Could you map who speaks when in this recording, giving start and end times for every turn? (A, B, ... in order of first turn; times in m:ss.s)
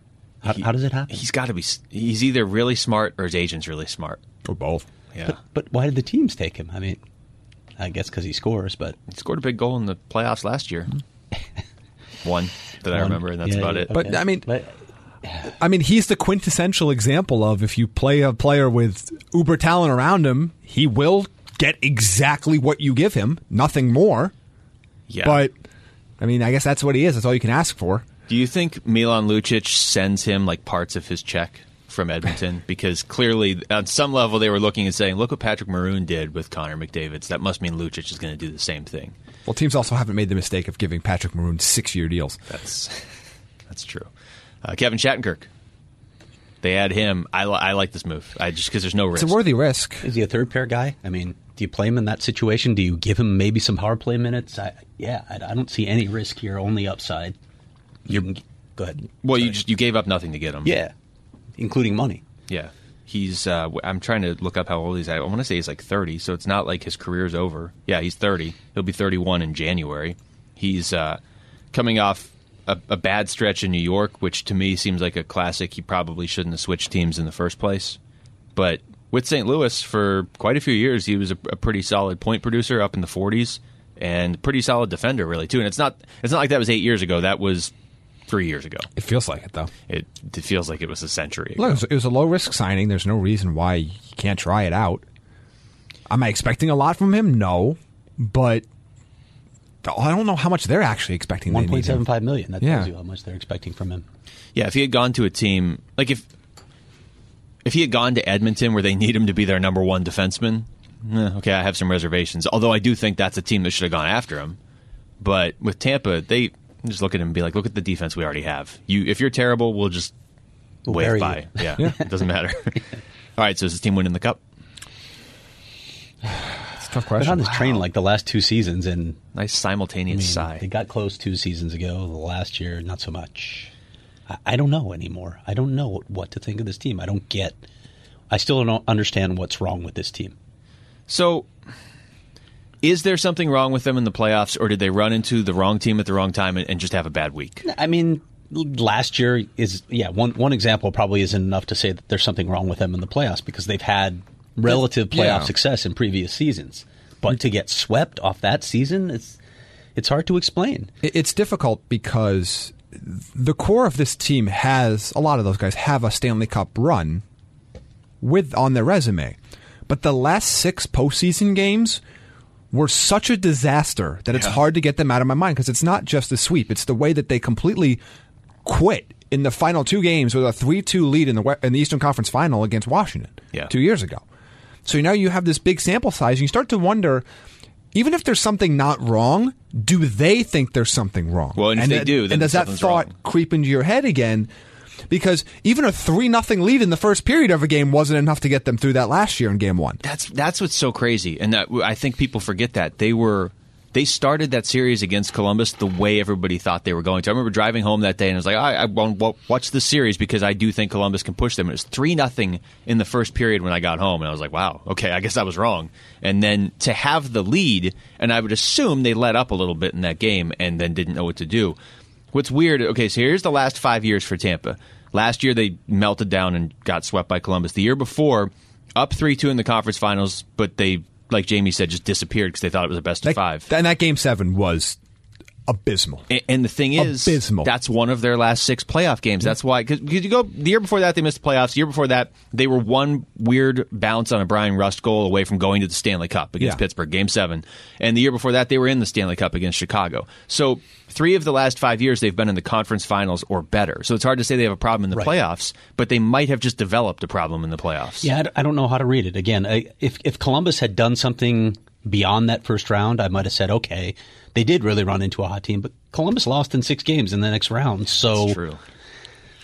0:00.4-0:01.2 A
0:00.5-0:04.2 B
0:04.4-0:04.8 C
0:05.2-0:07.0 A
0:07.8-0:09.0 A
0:09.1-0:10.9 B
0:12.2-0:13.9 B
0:12.9-0:14.7 A
0:13.9-0:14.5 C
0:15.6-0:24.3 C
0:25.1-0:25.4 B
0:25.2-0:25.5 C
0:26.2-0:28.0 C
0:28.3-0:39.1 B
0:39.4-0:42.4 C
0:42.5-0:43.0 B
0:43.7-0:44.1 B
0:44.6-0:45.5 B
0:46.6-0:49.4 B
0:49.1-0:50.0 C
0:50.0-0:57.4 A
0:58.0-0:59.6 A
0:59.2-1:00.8 B
1:00.6-1:00.9 A
1:01.6-1:02.2 A
1:02.5-1:11.2 B
1:11.7-1:18.0 B
1:18.6-1:27.7 B
1:28.3-1:28.9 B
1:29.0-1:29.7 C
1:29.9-1:31.8 B
1:31.6-1:35.0 C
1:36.1-1:38.6 C
1:39.8-1:42.0 C
1:41.5-1:44.0 A
1:42.6-1:42.9 C
1:44.5-1:46.2 B
1:47.6-1:54.6 B
1:55.2-2:00.1 B
2:00.8-2:01.9 A
2:00.9-2:02.8 B
2:03.4-2:04.4 B
2:06.8-2:07.6 C
2:07.2-2:09.2 A
2:09.3-2:10.6 B
2:10.1-2:13.7 A
2:14.3-2:17.6 A
2:18.3-2:20.3 A
2:21.1-2:21.5 B
2:22.8-2:27.6 B
2:27.6-2:39.4 A
2:34.7-2:35.5 C
2:40.0-2:40.9 A
2:41.0-2:47.2 C
2:48.2-2:49.4 C
2:49.9-2:52.0 C
2:52.7-2:58.0 C
2:58.6-3:04.2 C
3:04.8-3:07.2 C
3:07.9-3:14.5 C
3:11.6-3:13.1 B
3:15.1-3:20.0 C
3:20.0-3:41.8 B
3:42.3-3:53.7 B
3:53.2-3:55.0 C
3:55.7-3:56.2 C
3:56.3-4:18.3 B
3:57.0-3:57.7 C
4:18.2-4:28.6 A
4:28.2-4:28.8 B